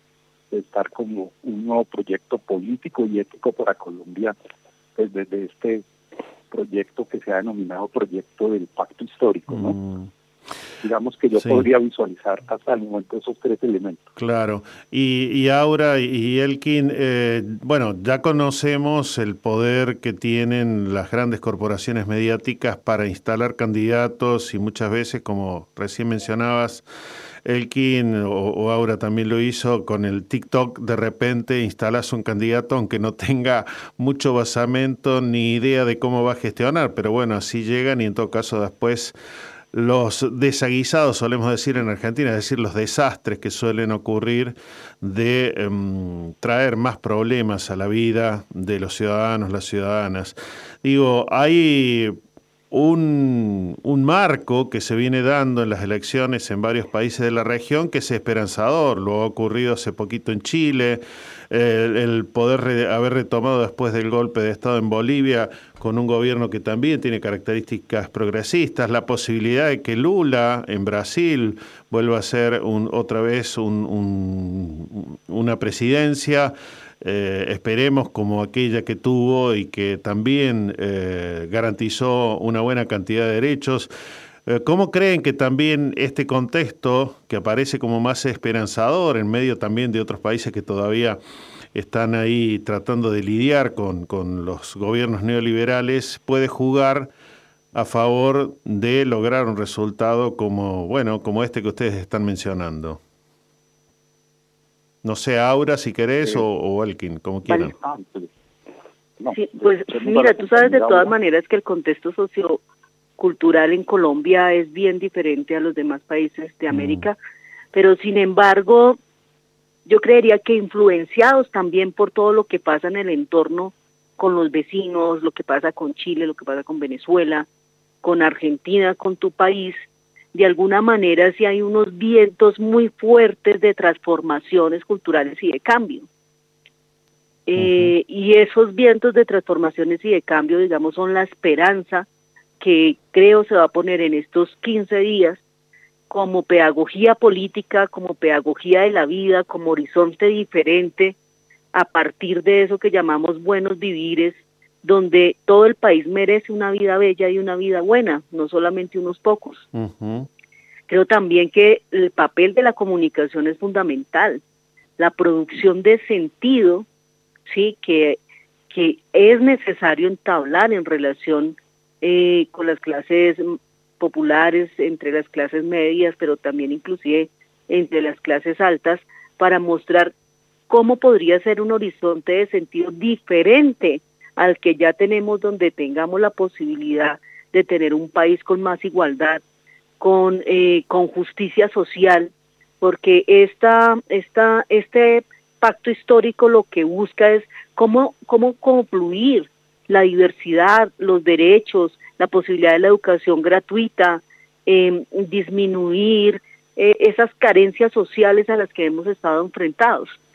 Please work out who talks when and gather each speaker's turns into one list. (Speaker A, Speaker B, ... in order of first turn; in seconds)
Speaker A: 0.5-4.3, 5.0-5.8, 6.5-9.8, 10.8-14.0, 107.5-108.3, 109.2-111.1
Speaker B: 9.5-10.1, 11.4-11.7, 14.2-26.8, 27.4-39.1, 39.7-52.1, 52.7-83.9, 84.5-91.2, 91.7-97.1, 97.7-103.0, 105.0-107.7, 116.7-117.1, 137.6-137.9, 159.7-160.3
Speaker C: 109.3-112.6, 113.2-117.2, 117.7-119.0, 119.8-127.5, 128.0-136.1, 137.5-142.1, 142.6-145.4, 146.1-151.2, 151.7-159.7, 160.9-164.4, 165.0-166.8, 167.5-168.2, 168.7-180.1, 180.7-189.4, 190.0-210.2